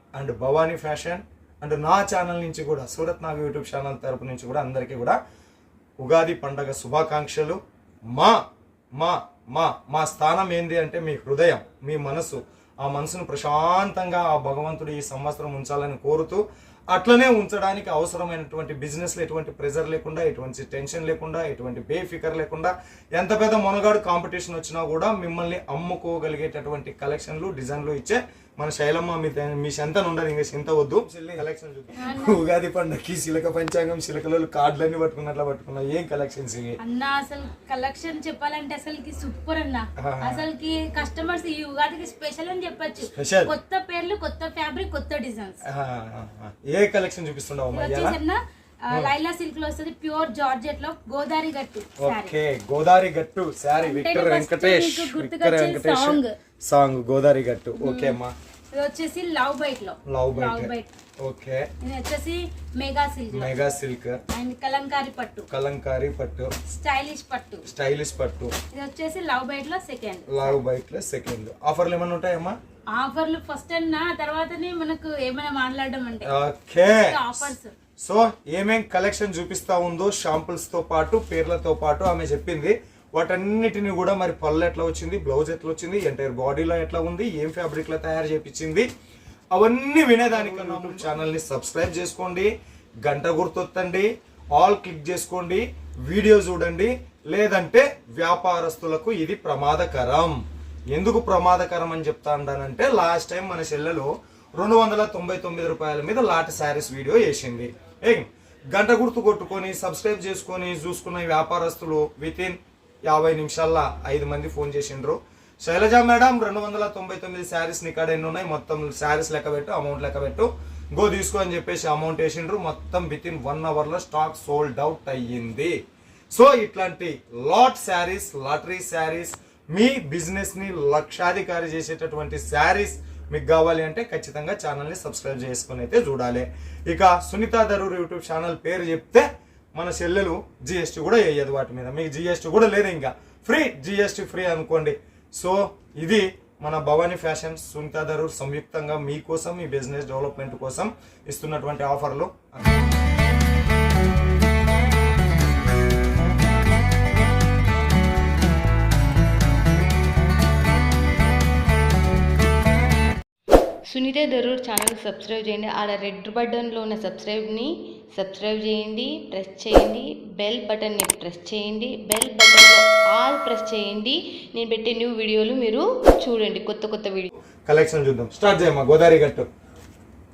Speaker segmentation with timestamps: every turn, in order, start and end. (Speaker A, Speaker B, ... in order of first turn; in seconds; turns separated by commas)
Speaker A: 0.1-5.2, Speaker A: 6.0-7.6, Speaker A: 9.0-36.8, Speaker B: 32.0-32.4, Speaker B: 36.8-45.6, Speaker A: 40.0-40.4, Speaker A: 43.1-43.5, Speaker A: 45.6-48.2, Speaker B: 47.7-52.4, Speaker A: 52.0-58.3, Speaker B: 53.8-56.4, Speaker B: 57.8-58.2, Speaker B: 58.7-60.9, Speaker A: 60.1-61.7, Speaker B: 61.8-63.5, Speaker A: 63.3-64.2, Speaker B: 64.3-65.5, Speaker A: 65.5-66.5, Speaker B: 66.7-67.7, Speaker A: 67.7-68.5, Speaker B: 68.7-70.6, Speaker A: 70.3-72.6, Speaker B: 72.9-76.3, Speaker A: 76.2-88.9, Speaker B: 77.0-77.7, Speaker A: 89.5-92.5, Speaker A: 93.0-100.4, Speaker A: 100.9-125.8, Speaker A: 126.3-152.9, Speaker C: 163.9-177.3, Speaker A: 177.7-179.5